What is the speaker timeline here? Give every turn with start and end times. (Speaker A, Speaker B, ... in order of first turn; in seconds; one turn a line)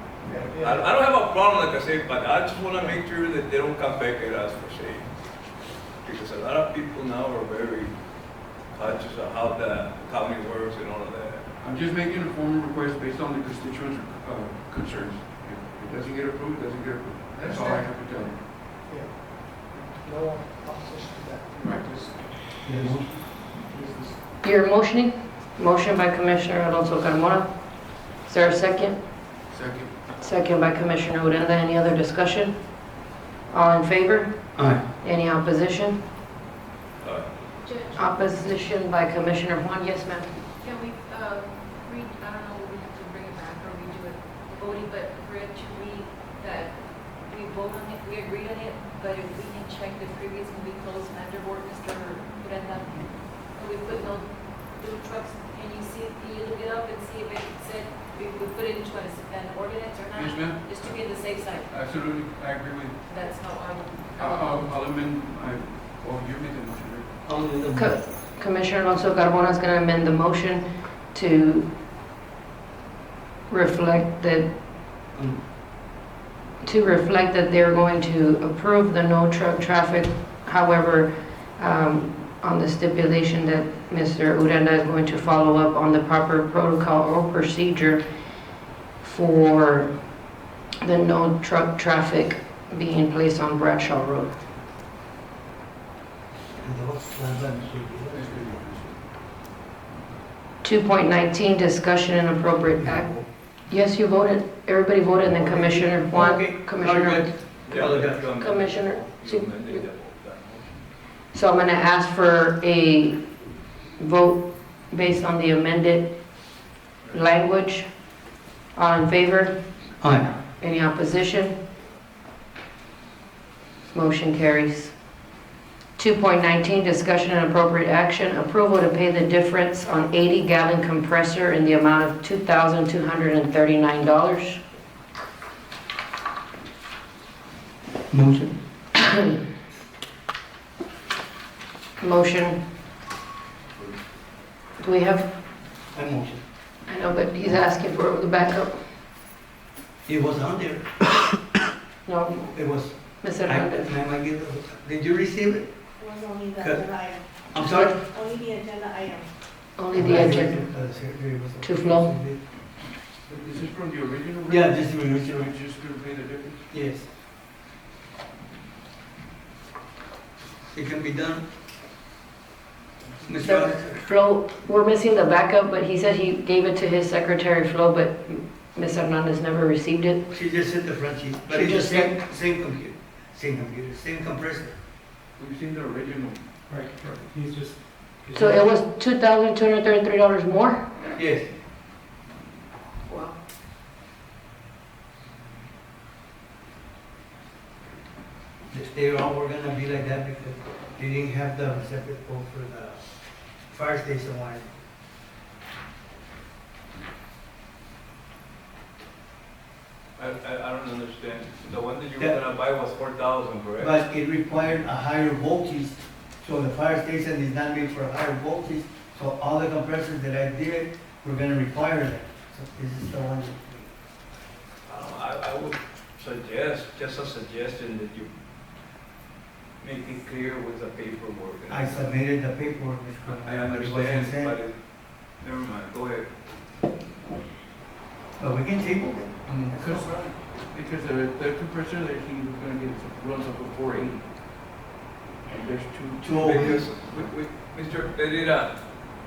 Speaker A: 0.2-0.9
Speaker B: 0.6-5.1
Speaker B: 6.0-11.4
Speaker C: 11.6-18.4
Speaker A: 17.4-17.9
Speaker A: 18.7-24.2
Speaker D: 22.6-23.1
Speaker E: 24.4-29.1
Speaker C: 29.5-29.9
Speaker E: 30.2-32.6
Speaker E: 33.5-36.0
Speaker D: 34.6-34.8
Speaker B: 37.0-37.3
Speaker F: 37.6-38.2
Speaker E: 38.0-40.3
Speaker F: 40.6-61.7
Speaker C: 60.1-61.0
Speaker C: 61.7-63.0
Speaker F: 63.0-64.8
Speaker C: 64.2-67.1
Speaker D: 67.2-68.0
Speaker E: 67.7-71.7
Speaker E: 73.5-74.5
Speaker D: 75.1-75.4
Speaker E: 76.6-88.0
Speaker E: 89.0-90.0
Speaker E: 90.8-94.4
Speaker D: 96.6-98.6
Speaker C: 98.1-99.0
Speaker E: 100.6-103.1
Speaker D: 102.7-103.3
Speaker E: 103.7-107.3
Speaker D: 105.3-108.2
Speaker B: 107.7-110.8
Speaker E: 108.4-109.8
Speaker E: 111.3-113.3
Speaker E: 114.0-116.1
Speaker E: 117.1-117.9
Speaker E: 118.7-119.5
Speaker D: 120.0-120.4
Speaker E: 120.6-121.6
Speaker E: 123.9-125.0
Speaker E: 126.0-134.6
Speaker D: 138.1-138.5
Speaker E: 139.1-139.3
Speaker E: 142.0-142.6
Speaker E: 144.8-145.3
Speaker D: 145.9-146.4
Speaker E: 146.9-148.8
Speaker D: 150.1-150.8
Speaker E: 152.1-152.6
Speaker D: 152.5-155.7
Speaker E: 153.2-153.9
Speaker G: 156.0-157.3
Speaker D: 156.6-156.9
Speaker D: 157.5-158.0
Speaker E: 157.6-157.9
Speaker G: 158.0-159.3
Speaker E: 159.8-160.6
Speaker D: 159.9-162.4
Speaker E: 161.6-162.1
Speaker C: 163.3-166.6
Speaker D: 164.5-165.5
Speaker D: 166.7-167.1
Speaker D: 170.7-171.4
Speaker D: 173.2-174.0
Speaker E: 173.4-180.2
Speaker D: 180.3-184.8
Speaker E: 181.5-182.1
Speaker C: 185.4-187.5
Speaker C: 188.2-188.6
Speaker E: 188.3-190.8
Speaker D: 191.2-191.5
Speaker F: 193.1-193.3
Speaker D: 198.7-203.0
Speaker D: 203.7-204.7
Speaker B: 210.2-214.0
Speaker D: 213.8-223.9
Speaker B: 224.8-228.3
Speaker B: 229.8-232.0
Speaker D: 231.7-234.6
Speaker B: 233.3-236.3
Speaker D: 238.4-240.1
Speaker C: 239.5-244.2
Speaker C: 245.5-247.2
Speaker D: 246.2-247.0
Speaker B: 246.3-248.8